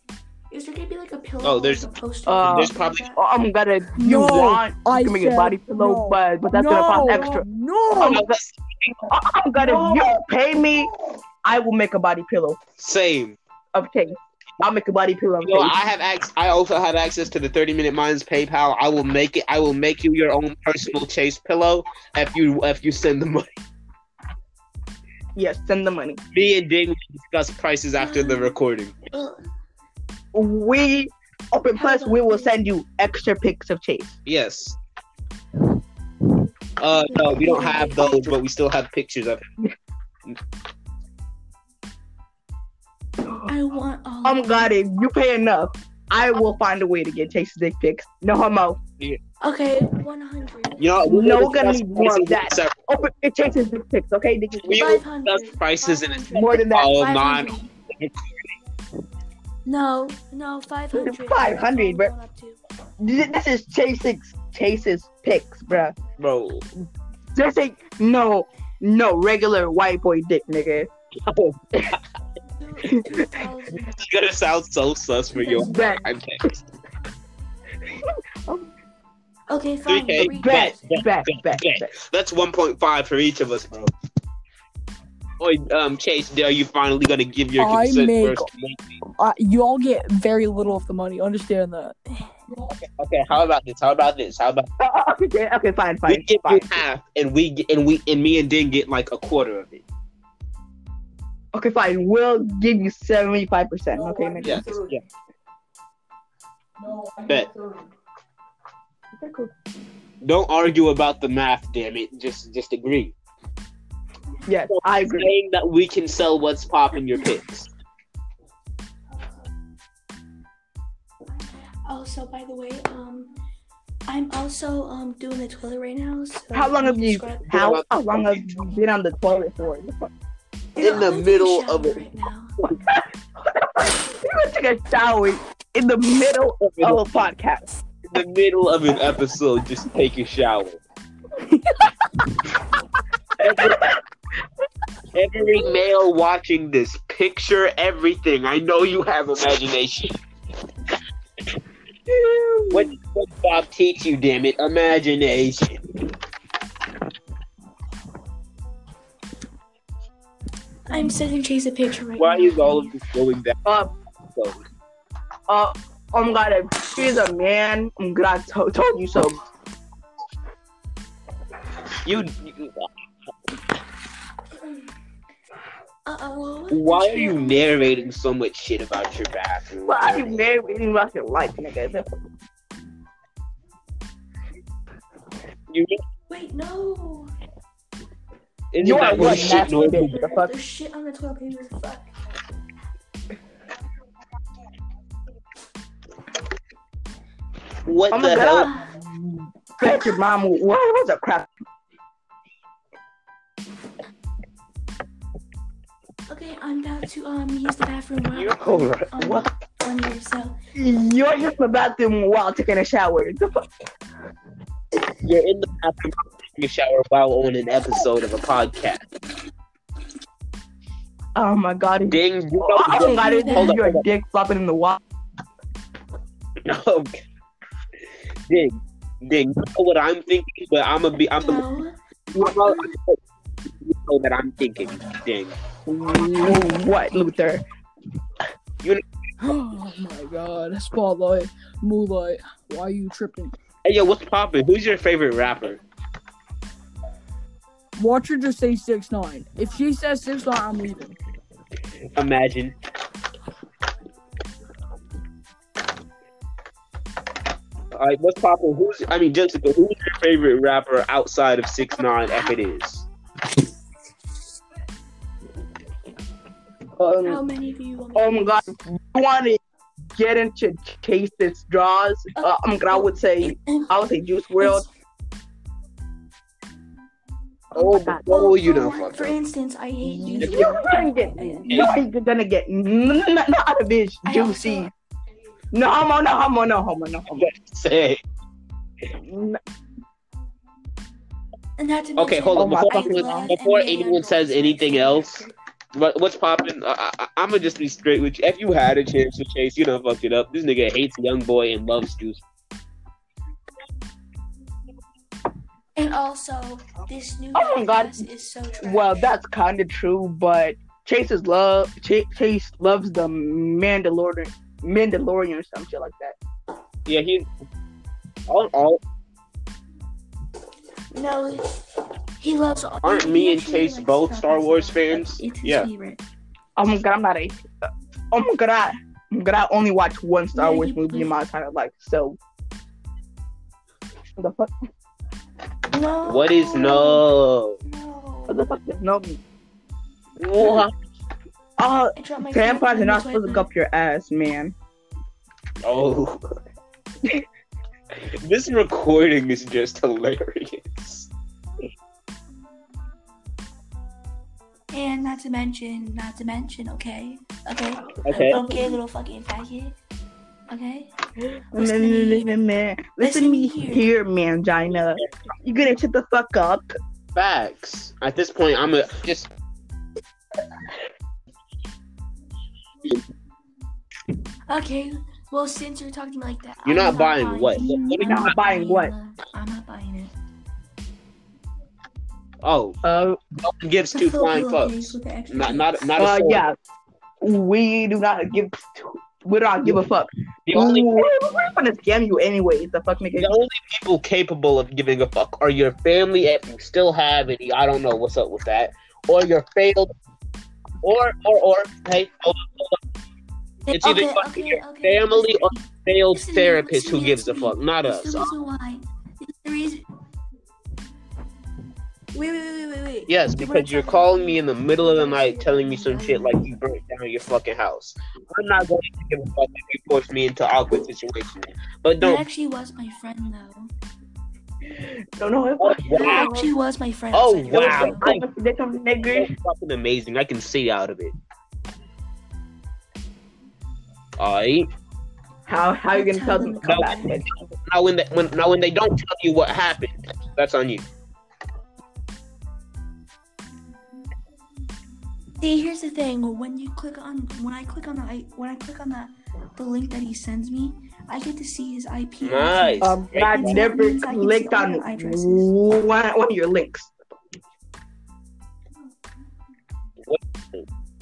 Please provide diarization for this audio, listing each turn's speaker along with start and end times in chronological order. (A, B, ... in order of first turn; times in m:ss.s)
0:00.5-0:03.2 A
0:01.4-0:01.9 B
0:02.2-0:08.2 C
0:02.4-0:03.1 B
0:03.9-0:08.2 D
0:08.0-0:09.1 B
0:09.1-0:10.9 C
0:09.6-0:10.2 D
0:11.4-0:12.6 C
0:12.8-0:13.4 B
0:13.7-0:15.7 C
0:15.4-0:23.6 B
0:25.4-0:26.2 C
0:26.3-0:29.0 B
0:28.0-0:28.6 A
0:29.1-0:29.4 A
0:30.3-0:34.2 C
0:31.8-0:32.6 A
0:34.2-0:34.8 B
0:36.8-0:39.4 B
0:36.9-0:38.4 A
0:43.4-0:44.7 A
0:44.2-0:48.8 C
0:49.4-0:50.8 A
0:50.8-0:52.8 B
0:51.0-0:54.8 C
0:54.6-0:58.3 B
0:54.7-0:57.7 A
0:56.3-0:57.0 C
0:59.6-1:02.6 A
1:00.9-1:02.1 C
1:03.0-1:06.0 C
1:06.2-1:06.7 B
1:07.3-1:10.9 C
1:11.2-1:12.0 B
1:12.6-1:14.1 A
1:14.0-1:16.4 B
1:15.4-1:16.1 C
1:15.4-1:16.1 A
1:17.9-1:18.7 C
1:19.5-1:20.9 A
1:19.9-1:23.9 B
1:20.2-1:21.9 C
1:25.4-1:29.0 B
1:27.6-1:28.5 D
1:29.2-1:32.0 D
1:33.0-1:34.7 B
1:34.8-1:36.8 C
1:36.1-1:39.8 B
1:41.5-1:44.7 C
1:43.9-1:45.0 D
1:44.4-1:45.0 B
1:46.8-1:47.9 D
1:49.2-1:49.5 C
1:50.2-1:53.1 B
1:54.5-1:55.3 C
1:54.7-1:57.7 B
2:01.8-2:03.3 A
2:04.1-2:07.5 A
2:06.5-2:10.1 C
2:07.4-2:08.7 B
2:10.8-2:12.6 A
2:10.8-2:12.0 B
2:12.7-2:17.7 C
2:16.6-2:17.0 B
2:18.1-2:20.8 B
2:23.4-2:23.9 B
2:23.6-2:23.9 C
2:25.1-2:30.2 B
2:32.1-2:32.9 C
2:32.7-2:35.8 B
2:40.9-2:43.0 A
2:42.2-2:43.6 B
2:43.6-2:43.9 C
2:44.3-2:44.6 B
2:45.5-2:49.4 C
2:52.0-2:52.9 B
2:56.0-2:58.1 A
2:56.7-3:00.4 B
2:59.8-3:02.1 C
3:05.7-3:06.0 B
3:06.3-3:07.3 A
3:08.7-3:10.2 B
3:08.8-3:10.5 C
3:09.0-3:12.1 A
3:17.8-3:18.7 B
3:18.1-3:19.0 C
3:19.8-3:21.5 C
3:26.3-3:30.6 A
3:28.3-3:29.5 B
3:30.7-3:33.7 C
3:35.2-3:39.0 B
3:41.4-3:45.0 C
3:42.1-3:44.0 B
3:42.9-3:43.8 A
3:46.6-3:47.2 B
3:48.5-3:51.6 B
3:51.4-3:52.0 A
3:52.3-3:53.2 B
3:53.8-3:55.6 B
3:55.8-3:57.6 C
3:59.4-4:03.5 D
4:03.8-4:05.8 B
4:08.0-4:11.2 D
4:12.1-4:12.7 B
4:17.9-4:23.1 B
4:27.0-4:27.4 C
4:27.2-4:28.8 A
4:28.1-4:29.6 C
4:30.1-4:34.8 C
4:32.4-4:33.9 A
4:34.6-4:34.9 A
4:37.7-4:38.3 C
4:37.7-4:39.4 B
4:38.2-4:41.9 A
4:40.0-4:44.9 C
4:40.4-4:40.7 B
4:41.7-4:42.0 B
4:44.2-4:44.9 A
4:45.7-4:47.4 C
4:47.3-4:48.2 B
4:49.2-4:49.6 C
4:51.8-4:55.5 A
4:52.2-5:02.4 B
4:52.6-4:53.5 C
5:06.0-5:09.2 A
5:07.5-5:08.3 C
5:08.8-5:16.4 C
5:17.0-5:17.5 B
5:18.5-5:19.0 B
5:21.1-5:21.8 A
5:22.4-5:26.2 A
5:23.0-5:25.9 B
5:26.8-5:27.6 C
5:28.3-5:32.4 C
5:30.5-5:31.3 A
5:34.4-5:34.7 C
5:35.9-5:37.2 A
5:36.2-5:37.8 B
5:37.8-5:38.7 A
5:38.5-5:39.4 C
5:40.4-5:40.9 B
5:41.8-5:44.7 C
5:42.2-5:43.7 A
5:45.8-5:46.4 B
5:48.2-5:51.3 B
5:54.9-6:00.0 A
5:58.2-5:58.6 B
5:58.3-5:58.9 C
6:00.7-6:01.1 A
6:01.7-6:06.9 C
6:01.7-6:02.5 A
6:03.2-6:04.0 A
6:07.3-6:09.5 B
6:14.7-6:20.3 A
6:16.8-6:18.5 B
6:17.8-6:19.1 C
6:22.6-6:23.0 B
6:23.0-6:23.4 C
6:23.6-6:26.6 B
6:24.1-6:26.1 A
6:26.2-6:26.8 C
6:27.4-6:33.5 C
6:30.7-6:31.3 B
6:33.4-6:40.1 B
6:41.0-6:43.0 B
6:43.8-6:50.0 A
6:43.9-6:48.5 B
6:52.3-6:56.8 A
6:53.3-7:02.4 B
7:02.2-7:03.9 A
7:04.9-7:06.7 C
7:05.8-7:06.6 B
7:06.1-7:08.2 A
7:07.3-7:08.4 B
7:07.7-7:09.5 C
7:09.3-7:11.4 B
7:14.4-7:14.9 B
7:15.7-7:17.5 C
7:16.1-7:17.4 A
7:16.8-7:17.2 B
7:17.8-7:21.0 B
7:25.6-7:35.7 A
7:32.4-7:33.9 B
7:33.0-7:37.1 C
7:40.2-7:40.8 B